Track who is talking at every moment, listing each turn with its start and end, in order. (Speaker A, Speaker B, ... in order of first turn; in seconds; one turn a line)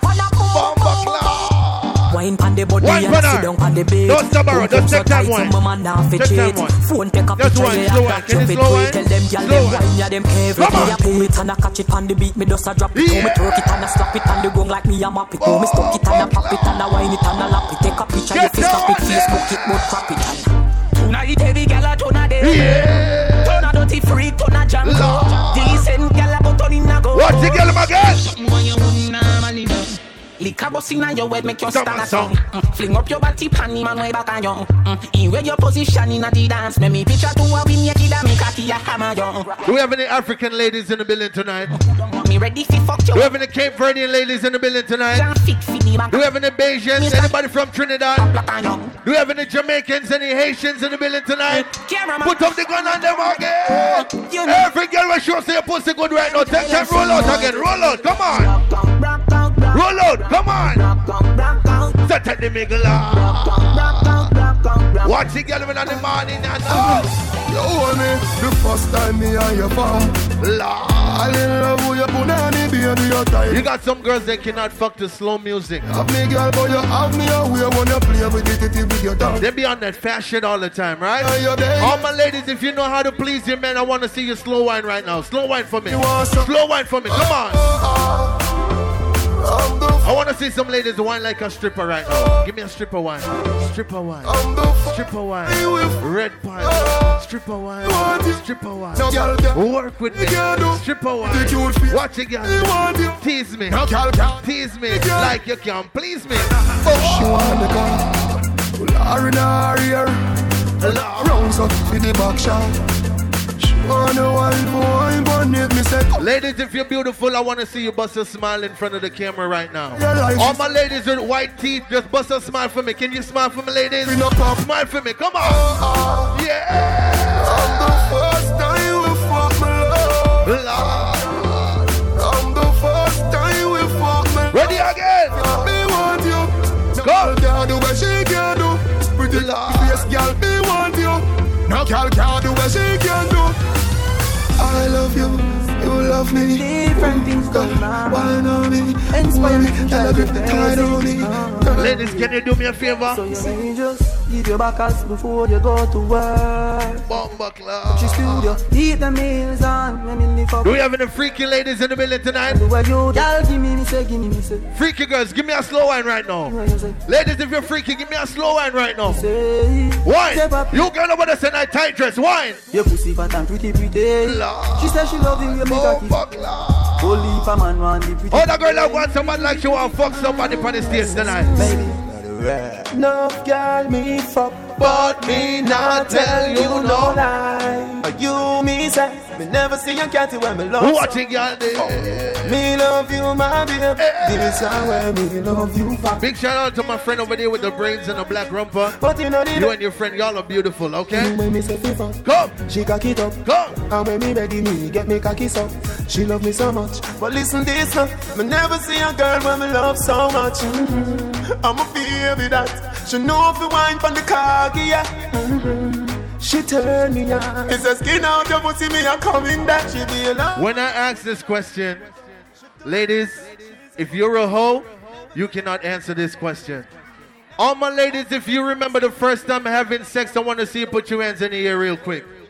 Speaker A: 0.5-2.1
Speaker B: 2.1-20.1
Speaker A: 2.8-3.5
Speaker A: 4.1-5.5
Speaker A: 6.2-6.7
Speaker A: 7.4-9.8
Speaker A: 10.6-11.0
Speaker A: 12.9-14.3
Speaker A: 15.4-16.8
Speaker A: 18.3-20.1
Speaker C: 18.5-22.9
Speaker A: 22.4-23.7
Speaker C: 23.4-39.6
Speaker A: 24.8-25.8
Speaker A: 27.1-28.2
Speaker A: 31.7-32.4
Speaker A: 39.6-41.7
Speaker C: 41.8-43.3
Speaker A: 43.1-45.3
Speaker C: 45.1-46.2
Speaker A: 46.1-48.3
Speaker C: 47.0-47.3
Speaker C: 48.1-48.9
Speaker A: 49.0-51.7
Speaker C: 51.5-54.6
Speaker A: 52.2-58.5
Speaker C: 56.4-57.5
Speaker D: 56.6-59.8
Speaker A: 59.7-60.8
Speaker D: 60.5-61.9
Speaker A: 62.0-64.2
Speaker D: 63.2-65.2
Speaker A: 65.0-67.1
Speaker E: 66.7-70.2
Speaker A: 70.4-71.2
Speaker E: 71.1-73.7
Speaker A: 73.5-75.8
Speaker E: 75.8-79.4
Speaker A: 79.4-87.6
Speaker E: 81.2-82.0
Speaker E: 85.9-86.4
Speaker E: 87.1-88.3
Speaker E: 89.4-90.1
Speaker A: 90.0-107.8
Speaker E: 94.2-96.0
Speaker E: 96.6-97.2
Speaker E: 97.8-98.4
Speaker E: 98.9-105.3
Speaker E: 106.8-110.2
Speaker A: 110.8-111.5
Speaker E: 110.9-112.7
Speaker E: 113.6-116.2
Speaker A: 116.2-125.7
Speaker E: 120.0-120.6
Speaker E: 124.0-124.6
Speaker E: 125.5-126.3
Speaker A: 126.3-128.1
Speaker E: 127.4-130.6
Speaker A: 130.4-131.8
Speaker E: 132.1-134.8
Speaker A: 134.5-135.4
Speaker E: 135.3-143.6
Speaker A: 137.0-137.4
Speaker A: 139.3-140.1
Speaker E: 144.6-151.3
Speaker D: 146.5-148.4
Speaker D: 149.1-152.2
Speaker A: 151.8-153.2
Speaker D: 153.1-157.0
Speaker A: 157.1-158.5
Speaker D: 157.9-160.8
Speaker A: 160.6-162.6
Speaker D: 162.5-164.7
Speaker A: 164.7-169.2
Speaker D: 166.5-167.0
Speaker D: 169.1-170.8
Speaker A: 170.0-172.6
Speaker D: 172.7-176.2
Speaker A: 174.2-175.0
Speaker A: 175.6-177.2
Speaker D: 177.0-179.0
Speaker A: 178.3-181.7
Speaker D: 180.9-191.2
Speaker A: 184.8-187.2
Speaker A: 190.8-192.6
Speaker D: 192.4-196.2
Speaker A: 194.0-194.7
Speaker A: 196.2-198.9
Speaker D: 199.0-199.7
Speaker A: 199.5-201.3
Speaker D: 201.1-220.6
Speaker A: 202.2-202.6
Speaker A: 203.4-203.8
Speaker A: 220.6-222.1
Speaker A: 222.8-226.8
Speaker A: 227.6-232.3